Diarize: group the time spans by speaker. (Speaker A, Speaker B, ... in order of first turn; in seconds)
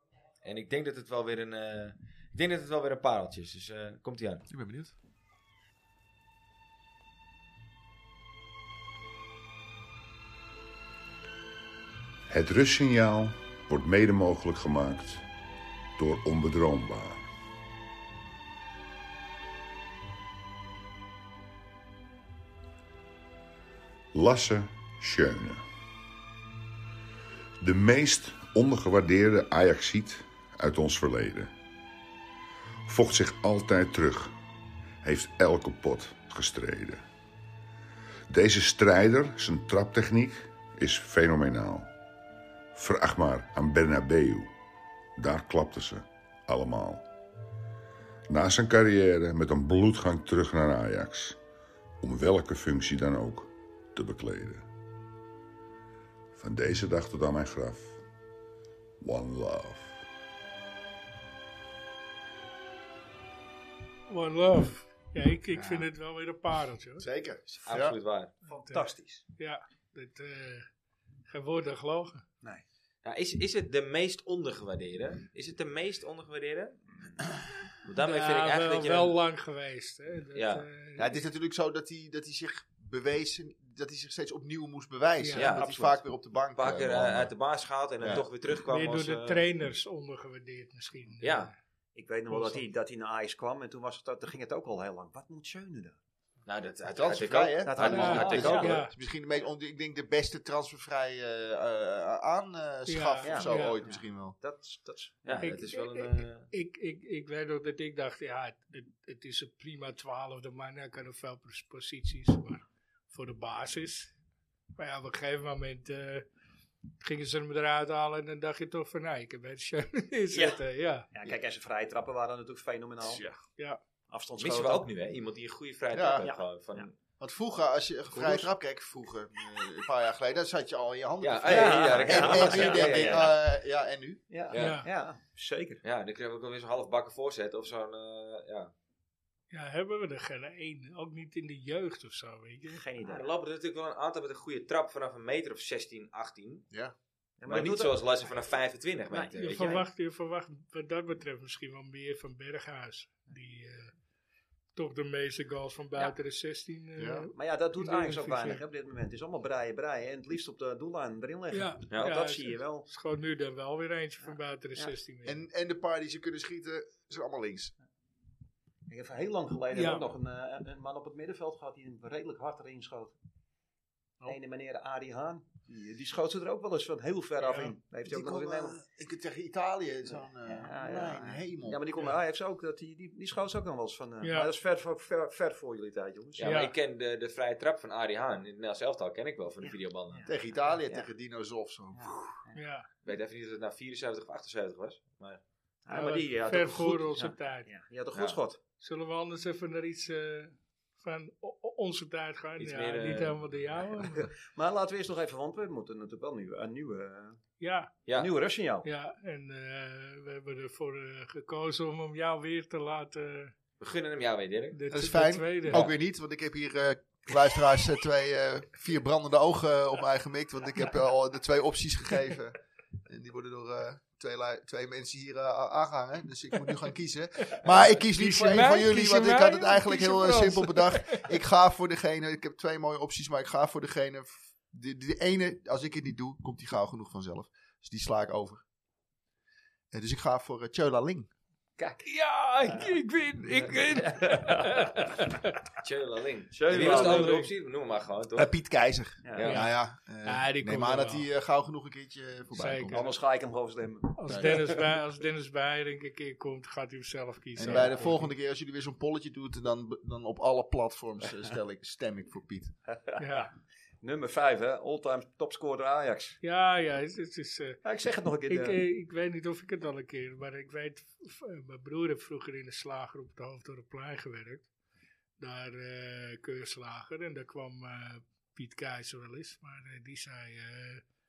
Speaker A: 0.4-4.5, 67.6-68.3, 73.0-76.8, 77.8-79.2, 80.3-80.7, 85.4-85.7, 86.6-89.5, 91.2-91.5, 96.5-98.8, 105.2-106.5, 124.4-127.0, 128.1-128.5, 131.2-133.3, 134.5-134.8, 135.8-138.7, 143.0-146.7, 147.5-149.8, 186.4-190.3, 193.0-195.4, 198.1-198.4, 202.6-203.4, 208.1-208.3, 213.8-214.8, 245.8-248.5, 249.3-249.6
Speaker B: 4.5-4.9, 65.5-65.9, 67.0-68.0, 81.0-87.3, 88.0-88.3, 96.9-104.4, 125.9-126.3, 127.2-134.2, 157.0-157.3, 165.2-167.7, 178.1-181.8, 190.3-192.2, 214.9-238.6, 239.9-241.3, 248.4-253.1, 254.3-254.6, 257.6-262.7
Speaker C: 12.3-15.2, 16.0-17.3, 24.1-25.6, 27.6-31.5, 32.9-34.3, 35.0-37.0, 38.3-41.9, 42.7-44.5, 45.2-47.1, 48.3-51.4, 52.0-54.6, 56.4-58.0, 59.0-60.0
Speaker D: 64.1-67.1, 68.7-70.7, 71.3-72.2, 78.0-81.1, 85.2-85.5, 88.7-91.5, 92.3-92.6, 97.9-98.9, 102.9-103.8, 105.4-114.1, 114.8-116.2, 117.0-121.1, 134.6-134.9, 139.5-142.8, 149.4-153.9, 154.8-158.6, 161.5-165.4, 169.7-170.1, 177.4-177.7, 184.2-184.5, 186.4-186.7, 192.6-192.9, 195.9-197.7, 198.8-204.3, 207.6-207.9, 208.8-213.5, 214.7-215.9, 228.0-231.3, 242.0-245.5, 246.7-247.5, 249.4-249.7, 250.2-251.3, 252.5-253.1, 254.2-258.3, 263.2-263.5, 266.4-267.8, 268.5-274.7, 275.4-281.0
Speaker E: 68.5-69.2, 85.5-86.0, 92.0-96.0, 97.7-98.8, 103.2-105.4, 120.3-120.6, 121.1-123.2, 124.1-124.9, 126.2-126.9, 131.4-133.3, 134.3-135.8, 142.7-143.2, 147.4-148.4, 149.1-149.8, 157.3-162.9, 164.2-164.9, 168.9-173.1, 174.3-178.8, 180.4-186.5, 189.6-191.1, 191.9-192.6, 195.8-198.6, 204.2-207.4, 208.1-208.9, 241.8-242.1, 242.6-243.0, 243.6-245.2, 246.5-247.4, 249.2-249.6, 252.9-254.7, 257.7-258.1, 262.9-263.5, 264.0-266.4, 267.8-268.8